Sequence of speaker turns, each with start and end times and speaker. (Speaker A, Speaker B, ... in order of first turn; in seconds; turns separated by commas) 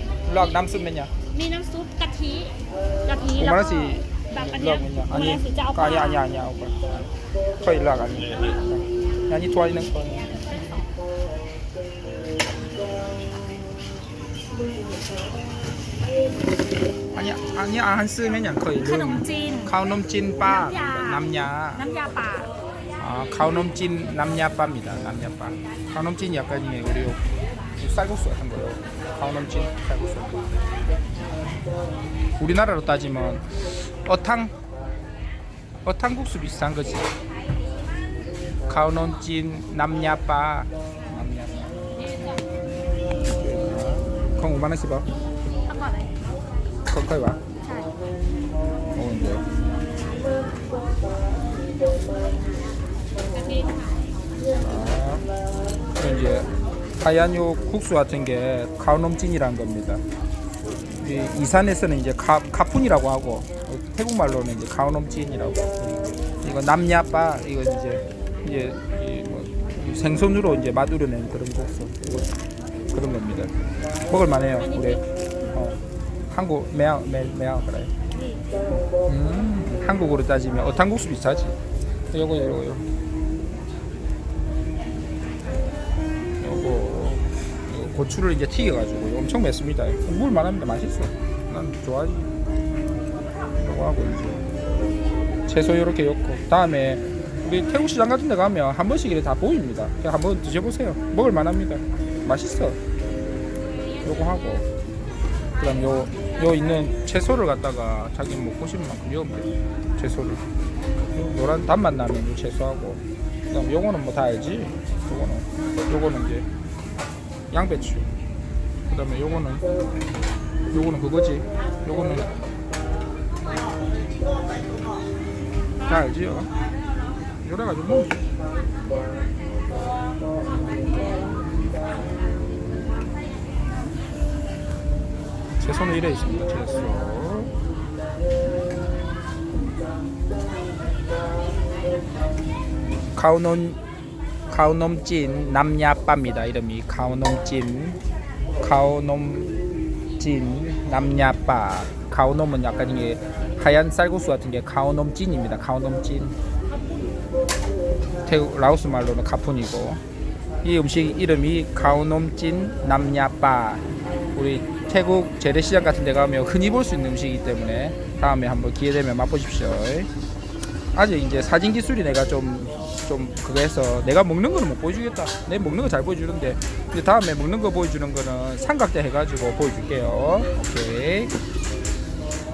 Speaker A: 0.2-1.1, Speaker B: 1.3-6.2, Speaker A: 3.4-7.1, Speaker A: 7.6-10.4, Speaker B: 10.4-10.9, Speaker A: 17.1-21.8, Speaker B: 18.7-19.7, Speaker B: 20.4-22.5, Speaker A: 23.0-27.2, Speaker A: 27.8-30.5, Speaker A: 32.4-34.5, Speaker A: 35.8-37.1, Speaker A: 38.7-41.7, Speaker A: 43.2-45.1, Speaker B: 45.6-46.1, Speaker A: 46.9-47.4, Speaker B: 47.6-47.9, Speaker A: 48.9-49.4, Speaker B: 53.3-54.0, Speaker A: 54.6-55.2, Speaker A: 56.0-56.5, Speaker A: 57.0-60.0, Speaker A: 61.0-72.3, Speaker A: 72.9-73.5, Speaker A: 74.1-75.0, Speaker B: 74.6-75.0, Speaker A: 75.5-75.8, Speaker A: 76.3-77.9, Speaker B: 78.1-78.4, Speaker A: 79.0-81.6, Speaker A: 82.1-82.8, Speaker A: 86.4-92.3, Speaker A: 93.6-94.4, Speaker A: 95.5-102.8, Speaker A: 104.0-104.7, Speaker A: 105.6-110.4, Speaker A: 111.1-116.5, Speaker A: 117.5-118.1, Speaker A: 118.9-119.6, Speaker A: 120.7-122.3, Speaker A: 125.8-126.5, Speaker A: 127.4-128.2, Speaker A: 135.6-137.5, Speaker A: 143.1-143.8, Speaker A: 144.5-148.0, Speaker A: 148.6-149.5, Speaker A: 150.2-156.3, Speaker A: 158.2-160.0, Speaker A: 160.6-163.8, Speaker A: 164.3-170.1, Speaker A: 170.9-181.3